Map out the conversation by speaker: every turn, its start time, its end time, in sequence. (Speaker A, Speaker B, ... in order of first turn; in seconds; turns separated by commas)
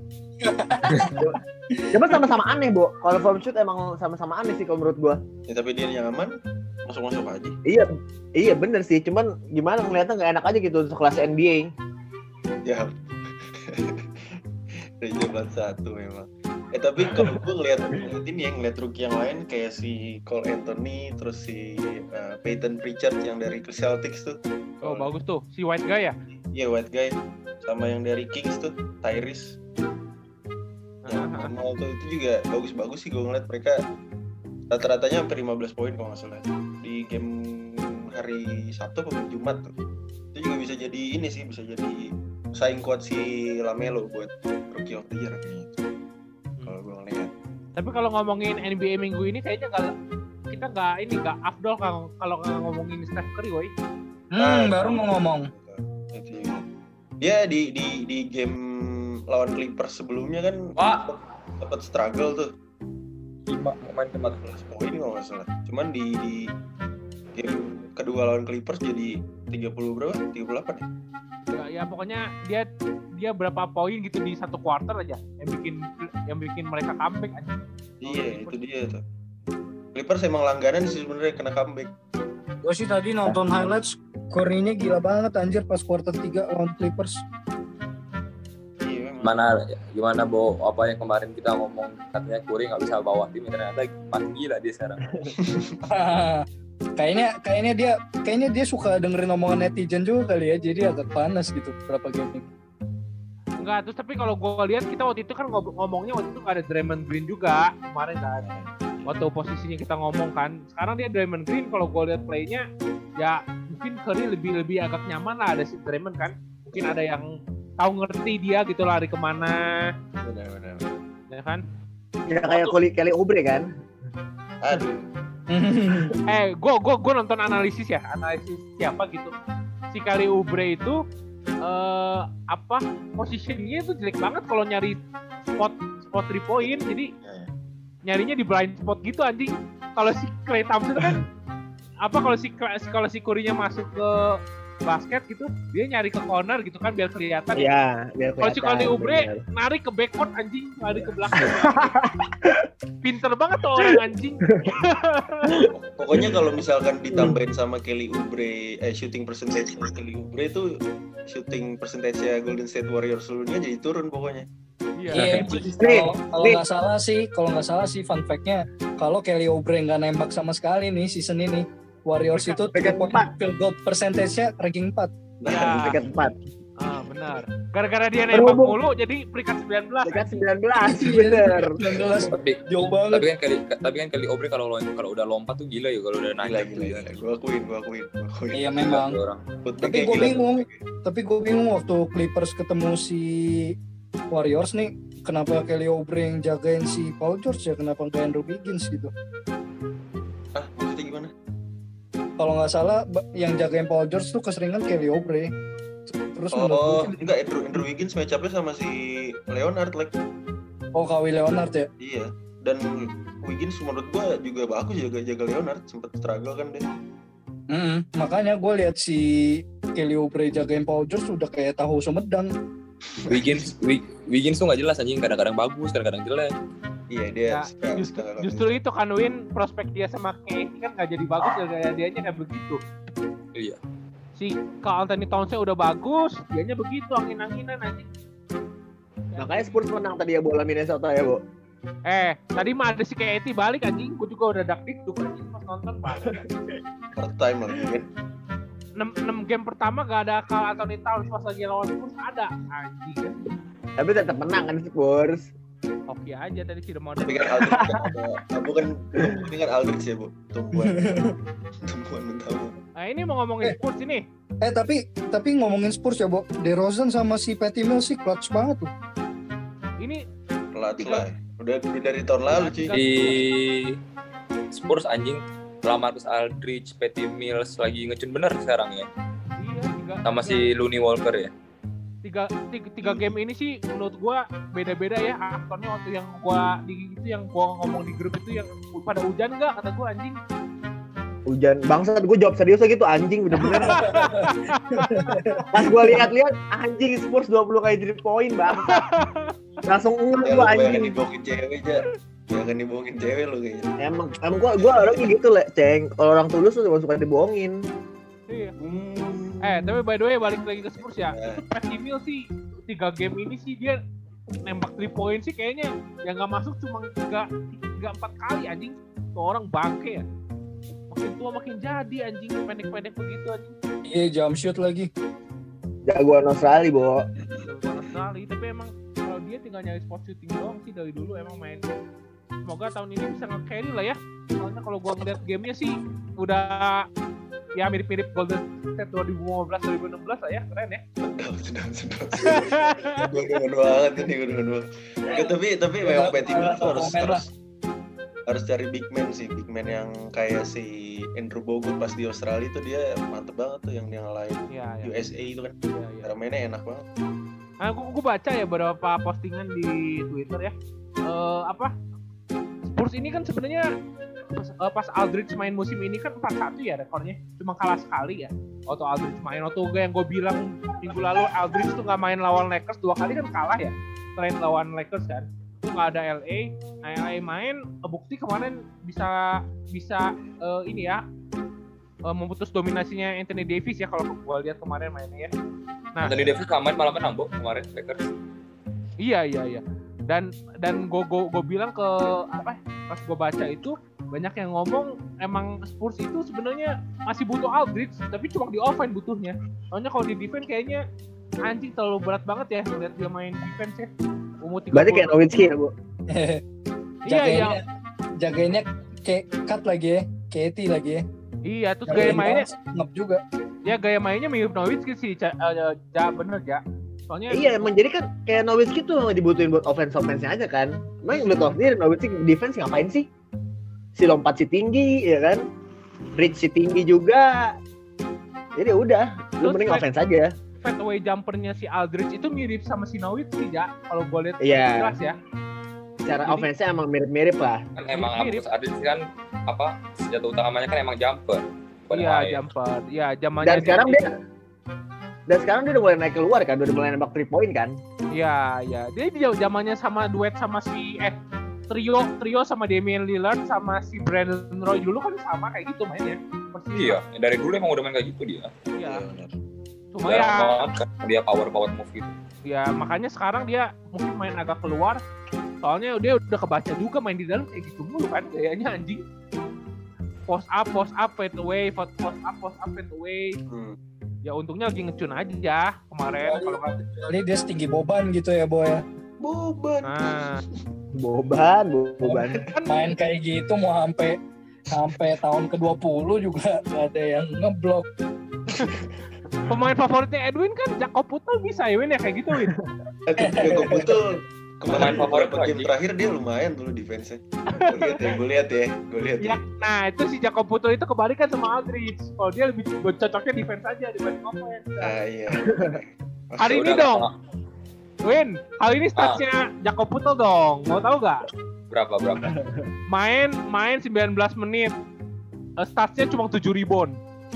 Speaker A: 0.4-1.9, Speaker B: 1.1-1.4, Speaker B: 1.9-5.2, Speaker C: 5.5-6.3, Speaker C: 6.9-7.6, Speaker B: 7.7-11.7, Speaker C: 13.5-14.2, Speaker C: 15.0-25.1, Speaker D: 24.8-26.2, Speaker C: 26.5-29.6, Speaker D: 31.1-31.5, Speaker C: 31.1-33.8, Speaker C: 34.7-39.7, Speaker C: 40.3-42.0, Speaker C: 42.5-45.8, Speaker C: 46.6-47.3, Speaker D: 47.8-49.9, Speaker D: 50.5-53.7, Speaker A: 54.3-55.5, Speaker C: 54.4-56.6, Speaker C: 57.2-62.5, Speaker E: 60.8-61.1, Speaker E: 63.5-64.4, Speaker C: 64.2-66.5, Speaker C: 67.3-70.9, Speaker D: 71.5-72.7, Speaker D: 73.2-78.6, Speaker C: 78.0-79.0, Speaker C: 79.9-81.9, Speaker A: 82.6-87.2, Speaker C: 88.8-89.4, Speaker E: 89.2-95.0, Speaker C: 95.3-95.8, Speaker A: 95.8-96.5, Speaker A: 97.0-102.5, Speaker D: 103.6-108.5, Speaker C: 108.4-109.1, Speaker D: 109.0-112.6, Speaker D: 113.2-119.9, Speaker C: 120.2-121.0, Speaker D: 121.3-121.6, Speaker B: 122.3-123.7, Speaker D: 122.5-122.8, Speaker C: 124.6-125.1, Speaker A: 125.5-126.2, Speaker D: 126.3-129.3, Speaker D: 129.9-131.0, Speaker D: 131.6-135.0, Speaker D: 135.6-137.1, Speaker C: 136.6-137.5, Speaker D: 138.1-141.2, Speaker D: 142.0-147.7, Speaker B: 147.6-149.4, Speaker D: 148.4-151.9, Speaker B: 151.4-152.6, Speaker D: 153.0-155.5, Speaker B: 155.4-156.4, Speaker C: 155.7-160.7, Speaker B: 157.1-157.4, Speaker C: 161.3-164.5, Speaker D: 165.0-165.7, Speaker A: 165.1-175.1, Speaker E: 165.1-165.7, Speaker B: 165.8-166.6, Speaker D: 172.3-172.6, Speaker B: 172.7-173.3, Speaker C: 175.4-176.0, Speaker D: 175.4-176.0, Speaker B: 175.6-176.3, Speaker D: 176.8-180.4, Speaker B: 178.3-178.8, Speaker B: 180.0-181.8, Speaker A: 180.8-183.3, Speaker E: 182.3-182.6, Speaker E: 183.1-187.1, Speaker C: 186.4-188.9, Speaker A: 188.5-189.2, Speaker E: 188.8-189.4, Speaker C: 189.7-190.7, Speaker A: 189.8-193.7, Speaker A: 194.3-199.1, Speaker C: 200.6-201.3, Speaker A: 202.4-205.5, Speaker A: 206.1-207.2, Speaker C: 206.5-210.1, Speaker A: 211.0-211.9, Speaker C: 212.0-216.9, Speaker A: 217.7-222.5, Speaker C: 223.2-223.7, Speaker E: 223.3-226.5, Speaker C: 227.1-228.8, Speaker D: 227.5-232.8, Speaker D: 234.4-238.1, Speaker D: 239.3-239.8, Speaker B: 239.4-241.4, Speaker D: 242.1-246.4, Speaker C: 247.2-248.1, Speaker D: 249.0-253.4, Speaker B: 254.0-255.5, Speaker D: 256.1-257.6, Speaker C: 257.2-261.1, Speaker B: 257.7-258.1, Speaker B: 259.2-259.4, Speaker A: 260.8-261.4, Speaker C: 261.8-262.8, Speaker D: 263.0-264.2, Speaker A: 264.6-268.9, Speaker C: 270.7-273.0, Speaker D: 271.0-271.3, Speaker D: 272.5-273.5, Speaker E: 272.9-274.0, Speaker E: 274.7-279.1, Speaker D: 279.6-280.7, Speaker E: 280.2-281.5, Speaker D: 282.2-290.4, Speaker C: 283.0-283.4, Speaker B: 291.5-294.1, Speaker D: 293.6-295.4, Speaker A: 293.6-296.1, Speaker B: 295.7-299.1, Speaker D: 298.8-299.5, Speaker B: 299.9-301.1, Speaker C: 300.4-304.0, Speaker B: 304.0-307.8, Speaker C: 304.9-305.3, Speaker D: 308.5-308.7, Speaker C: 308.8-310.0, Speaker D: 309.6-314.0, Speaker C: 310.8-311.6, Speaker D: 314.6-320.3, Speaker D: 321.1-323.8, Speaker A: 324.1-325.1, Speaker B: 326.1-327.3, Speaker D: 327.6-331.9, Speaker D: 332.6-337.1, Speaker D: 337.8-341.0, Speaker C: 341.2-347.5, Speaker D: 342.4-343.3, Speaker A: 346.0-347.4, Speaker C: 348.5-357.1, Speaker D: 354.7-355.1, Speaker D: 355.9-356.3, Speaker D: 357.8-360.7, Speaker D: 361.3-361.9, Speaker D: 362.9-363.9, Speaker D: 364.5-381.2, Speaker D: 382.3-385.5, Speaker E: 386.2-388.2, Speaker D: 389.2-401.0, Speaker D: 401.7-404.1, Speaker D: 404.6-405.4, Speaker B: 404.9-405.9, Speaker A: 406.3-406.6, Speaker D: 407.2-407.8, Speaker A: 407.3-407.8, Speaker A: 408.4-411.2, Speaker D: 411.7-412.7, Speaker A: 412.1-413.4, Speaker D: 413.9-417.9, Speaker B: 417.5-423.3, Speaker D: 421.3-421.6, Speaker B: 424.2-425.6, Speaker B: 426.4-427.7, Speaker B: 428.8-430.5, Speaker D: 429.6-430.1, Speaker D: 430.8-435.4, Speaker B: 434.6-435.2, Speaker B: 436.2-437.8, Speaker D: 436.4-436.7, Speaker E: 438.0-442.7, Speaker D: 438.1-438.6, Speaker D: 442.1-444.2, Speaker B: 443.6-444.3, Speaker B: 445.5-448.0, Speaker D: 448.3-451.4, Speaker D: 451.9-457.2, Speaker E: 456.9-458.7, Speaker D: 459.0-459.2, Speaker C: 459.0-459.6, Speaker D: 460.1-460.8, Speaker E: 460.3-462.3, Speaker D: 462.7-465.2, Speaker D: 465.8-469.2, Speaker D: 470.5-473.6, Speaker C: 473.7-474.0, Speaker D: 474.5-476.9, Speaker A: 476.4-479.0, Speaker C: 479.4-480.7, Speaker D: 480.1-480.6, Speaker B: 481.2-482.6, Speaker C: 482.3-482.6, Speaker D: 482.7-483.1, Speaker A: 482.9-484.4, Speaker A: 484.9-488.1, Speaker C: 488.7-489.1, Speaker D: 489.7-492.7, Speaker C: 493.3-499.6, Speaker A: 493.4-494.2, Speaker E: 494.9-495.9, Speaker D: 497.7-498.1, Speaker D: 499.4-505.1, Speaker C: 505.0-506.8, Speaker B: 505.6-506.0, Speaker D: 506.6-507.3, Speaker E: 506.7-507.3, Speaker D: 508.2-511.5, Speaker E: 511.9-512.6, Speaker B: 512.5-512.9, Speaker D: 513.1-514.9, Speaker D: 515.8-517.2